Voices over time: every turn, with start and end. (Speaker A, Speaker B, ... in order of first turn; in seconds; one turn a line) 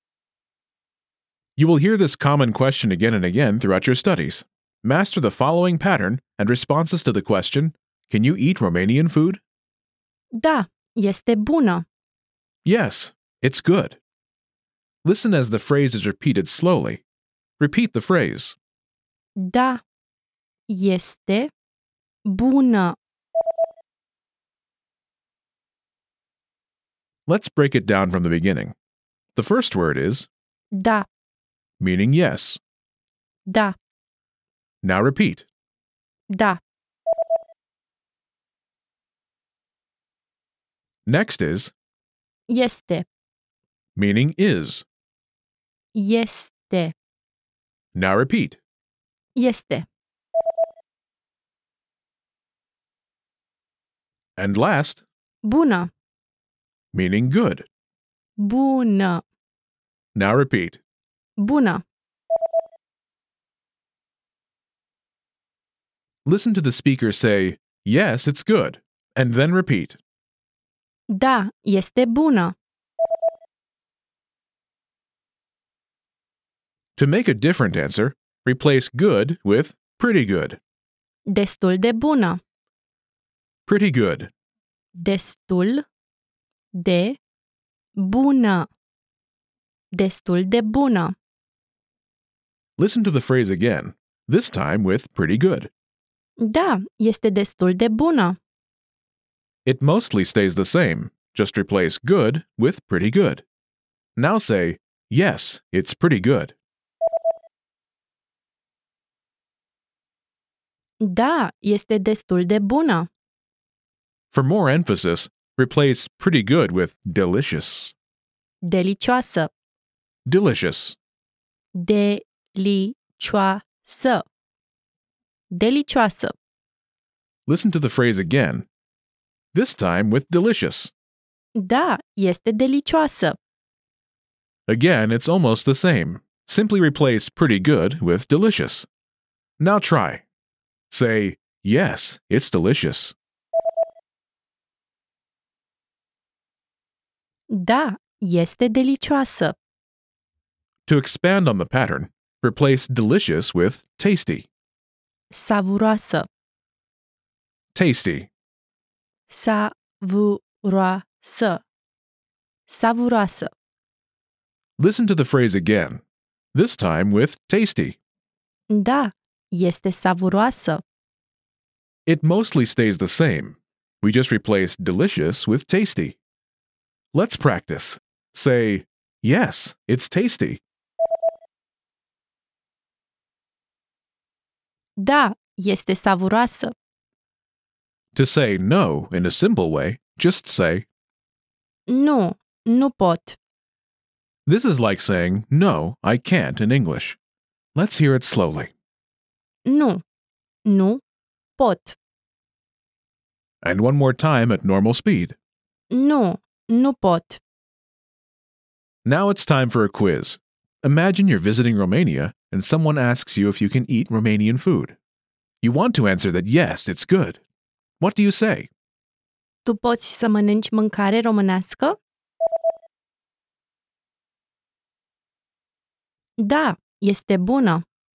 Speaker A: 1.6-9.4
Speaker B: 10.4-11.8
Speaker A: 12.6-14.0
Speaker A: 15.0-17.0
Speaker A: 17.6-18.6
Speaker B: 19.4-19.8
Speaker B: 20.7-21.5
Speaker B: 22.2-23.0
Speaker A: 27.3-28.7
Speaker A: 29.3-30.3
Speaker B: 30.7-31.1
Speaker A: 31.8-32.6
Speaker B: 33.5-33.8
Speaker A: 34.8-35.5
Speaker B: 36.3-36.6
Speaker A: 41.0-41.7
Speaker B: 42.5-43.1
Speaker A: 44.0-44.9
Speaker B: 45.9-46.9
Speaker A: 47.9-48.6
Speaker B: 49.4-49.9
Speaker A: 54.4-55.0
Speaker B: 55.4-55.9
Speaker A: 56.9-57.7
Speaker B: 58.4-59.2
Speaker A: 60.1-60.8
Speaker B: 61.4-61.8
Speaker A: 66.2-70.0
Speaker B: 71.1-72.5
Speaker A: 77.0-80.6
Speaker B: 81.3-82.4
Speaker A: 83.7-84.3
Speaker B: 84.9-85.8
Speaker B: 86.7-87.2
Speaker B: 88.0-88.7
Speaker B: 89.9-91.2
Speaker A: 92.8-95.7
Speaker B: 96.4-98.4
Speaker A: 99.7-103.4
Speaker A: 104.2-106.5
Speaker B: 111.0-113.1
Speaker A: 114.3-117.9
Speaker B: 118.6-119.5
Speaker A: 120.2-121.0
Speaker B: 121.7-124.2
Speaker B: 125.5-126.3
Speaker A: 127.5-128.7
Speaker A: 129.5-130.9
Speaker B: 131.5-133.4
Speaker A: 134.7-138.9
Speaker A: 139.6-140.2
Speaker A: 140.9-143.1
Speaker B: 147.5-149.6
Speaker A: 150.9-154.5
Speaker B: 155.3-156.3
Speaker A: 157.7-158.3
Speaker B: 159.3-161.6
Speaker B: 162.7-163.5
Speaker A: 164.8-166.0
Speaker A: 166.5-168.0
Speaker B: 168.7-170.8
Speaker A: 172.1-176.2
Speaker A: 177.1-180.6
Speaker B: 185.0-186.7
Speaker A: 188.1-190.8
Speaker B: 191.9-193.4
Speaker A: 194.4-197.2
Speaker A: 197.7-198.7
Speaker B: 199.7-200.0
Speaker B: 200.6-201.0
Speaker B: 201.6-202.0
Speaker A: 203.6-205.3
Speaker B: 205.9-207.4
Speaker A: 209.0-215.0
Speaker A: 215.6-217.4
Speaker A: 218.0-218.7
Speaker B: 219.6-222.0
Speaker B: 226.4-227.8